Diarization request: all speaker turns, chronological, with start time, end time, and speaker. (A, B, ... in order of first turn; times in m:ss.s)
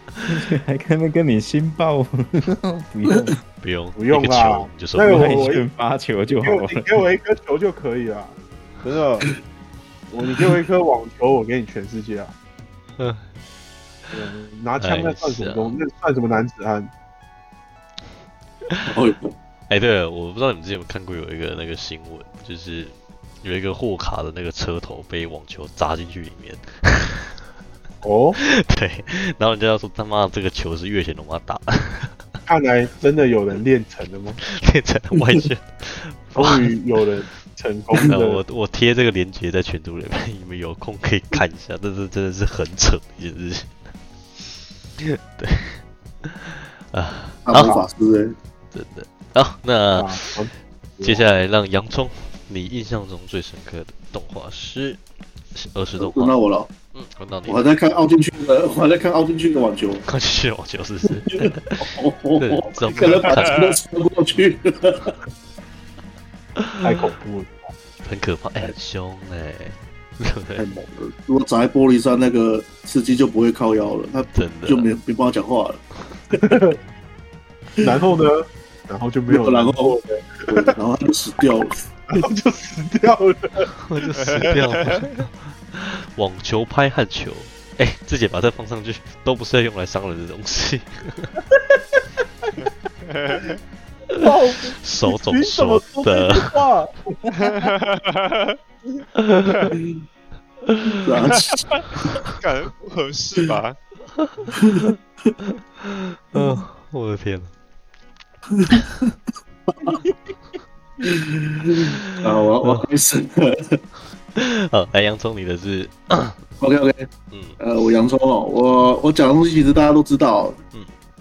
0:00.2-0:03.4 A
0:03.6-0:05.5 B
0:04.0-0:05.6 C
0:05.0-0:06.9 A
0:06.3-0:09.3 C
0:10.1-0:12.3 C
0:13.0-0:13.2 B
0:14.1-0:16.9 C
0:14.8-0:15.8 B
0:18.8-0:19.3 D
0:19.7-0:27.3 B
0:28.0-0:28.4 C
0:28.4-0:32.2 B
0:32.4-0:34.4 C
0:34.5-0:36.7 B
0:36.3-0:38.4 C
0:38.1-0:43.9 B
0:45.0-0:47.8 B
0:47.5-0:48.4 D
0:47.6-0:47.8 C
0:48.7-0:50.2 B
0:49.9-0:51.2 C
0:51.0-0:55.0 B
0:55.5-0:56.3 B
0:56.0-0:56.7 D
0:56.9-0:57.7 B
0:57.5-1:00.0 D
1:00.0-1:03.8 B
1:01.1-1:05.1 D
1:03.3-1:03.6 E
1:06.6-1:06.9 B
1:06.8-1:07.7 C
1:08.0-1:10.6 B
1:10.6-1:15.8 D
1:14.4-1:14.9 B
1:16.4-1:16.8 C
1:17.8-1:20.8 C
1:19.3-1:20.0 D
1:20.5-1:21.8 D
1:22.1-1:23.7 C
1:23.8-1:31.3 B
1:24.2-1:25.1 E
1:31.5-1:32.5 C
1:33.1-1:33.6 E
1:34.1-1:36.9 C
1:34.8-1:36.6 B
1:37.3-1:38.6 E
1:39.2-1:39.6 B
1:39.4-1:39.8 E
1:40.6-1:41.0 B
1:41.0-1:41.6 D
1:41.3-1:43.8 E
1:44.2-1:44.5 B
1:44.5-1:45.3 D
1:45.8-1:47.5 B
1:46.4-1:46.6 D
1:48.5-1:49.1 D
1:49.7-1:50.0 D
1:51.0-1:53.8 D
1:54.4-1:56.4 B
1:56.6-2:00.6 D
1:57.3-1:57.6 B